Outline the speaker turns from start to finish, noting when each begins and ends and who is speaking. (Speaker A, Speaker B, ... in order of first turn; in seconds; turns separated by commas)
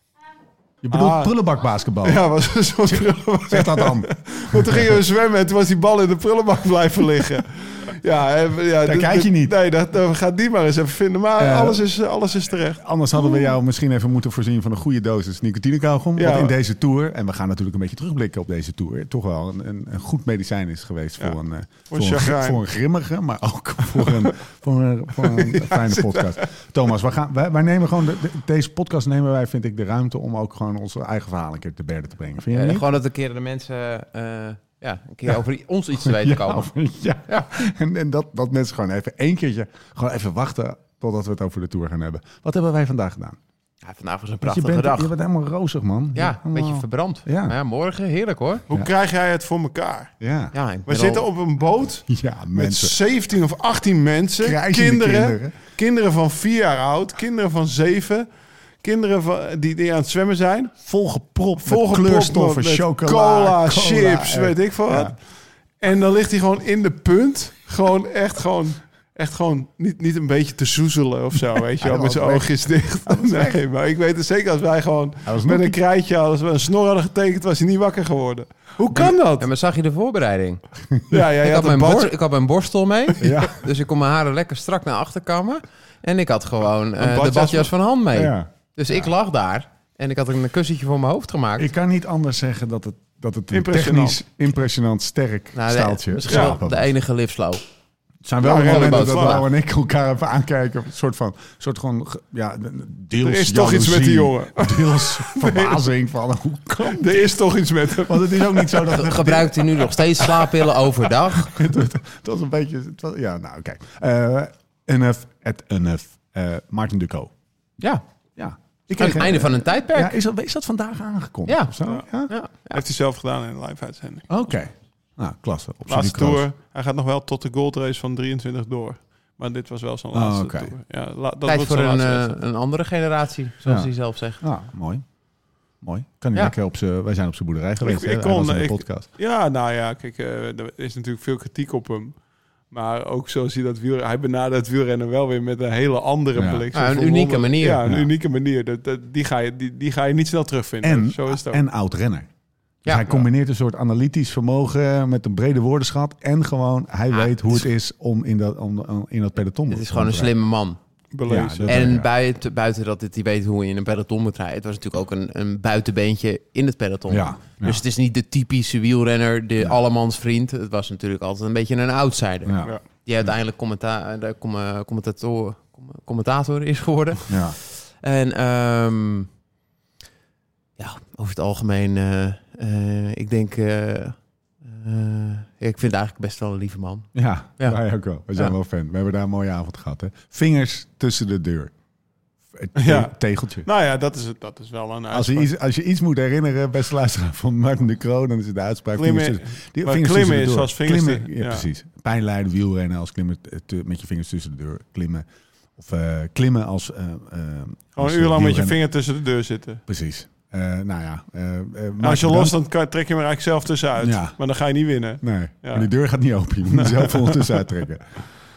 Speaker A: 0.8-2.2, Speaker B: 0.9-1.3, Speaker B: 2.0-13.5, Speaker A: 2.9-4.9, Speaker A: 8.8-9.5, Speaker A: 11.4-11.8, Speaker A: 12.8-32.9, Speaker B: 16.2-16.5, Speaker B: 21.9-22.6, Speaker B: 23.9-24.3, Speaker B: 25.2-26.4, Speaker C: 32.5-36.7, Speaker A: 36.0-43.4, Speaker C: 37.3-37.6, Speaker C: 43.8-45.1, Speaker A: 44.4-47.5, Speaker C: 46.1-48.6, Speaker B: 48.7-50.1, Speaker A: 50.2-50.5, Speaker C: 50.5-51.3, Speaker B: 50.9-58.2, Speaker A: 52.1-53.0, Speaker A: 54.4-55.5, Speaker B: 58.8-60.7, Speaker A: 60.8-65.2, Speaker B: 61.6-65.2, Speaker B: 65.8-79.5, Speaker A: 71.8-72.5, Speaker A: 73.0-73.6, Speaker A: 75.2-75.8, Speaker C: 78.9-80.6, Speaker B: 81.1-82.1, Speaker C: 81.4-91.7, Speaker A: 83.2-83.7, Speaker B: 87.0-87.7, Speaker A: 88.1-89.0, Speaker A: 91.6-96.9, Speaker B: 93.5-94.2, Speaker C: 95.5-97.6, Speaker B: 96.3-96.6, Speaker A: 98.2-107.3, Speaker B: 98.4-99.4, Speaker C: 98.5-99.5, Speaker B: 103.2-105.9, Speaker B: 106.8-109.0, Speaker A: 107.9-109.9, Speaker C: 108.9-111.5, Speaker B: 110.2-110.7, Speaker A: 111.4-117.3, Speaker A: 118.4-122.3, Speaker C: 119.0-120.2, Speaker C: 121.5-121.7, Speaker C: 122.3-122.8, Speaker B: 122.7-124.3, Speaker A: 124.3-126.5, Speaker B: 125.9-132.3, Speaker A: 130.1-130.7, Speaker C: 131.4-134.4, Speaker A: 133.6-135.0, Speaker A: 135.8-139.1, Speaker B: 137.8-142.1, Speaker B: 142.7-151.6, Speaker A: 146.3-146.7, Speaker C: 146.7-147.8, Speaker A: 150.8-152.3, Speaker A: 152.8-160.3, Speaker C: 157.1-157.6, Speaker C: 159.7-160.8, Speaker B: 161.1-161.9, Speaker A: 161.3-162.1, Speaker C: 161.6-179.3, Speaker A: 167.1-167.8, Speaker A: 172.4-173.3, Speaker A: 177.3-177.6, Speaker C: 180.8-187.8, Speaker A: 187.1-191.7, Speaker A: 192.5-193.7, Speaker B: 192.8-195.5, Speaker A: 195.1-208.8, Speaker B: 198.9-201.7, Speaker B: 208.0-209.8, Speaker A: 209.9-212.6, Speaker B: 212.0-215.9, Speaker A: 214.0-214.3, Speaker A: 215.2-218.2, Speaker B: 216.7-217.6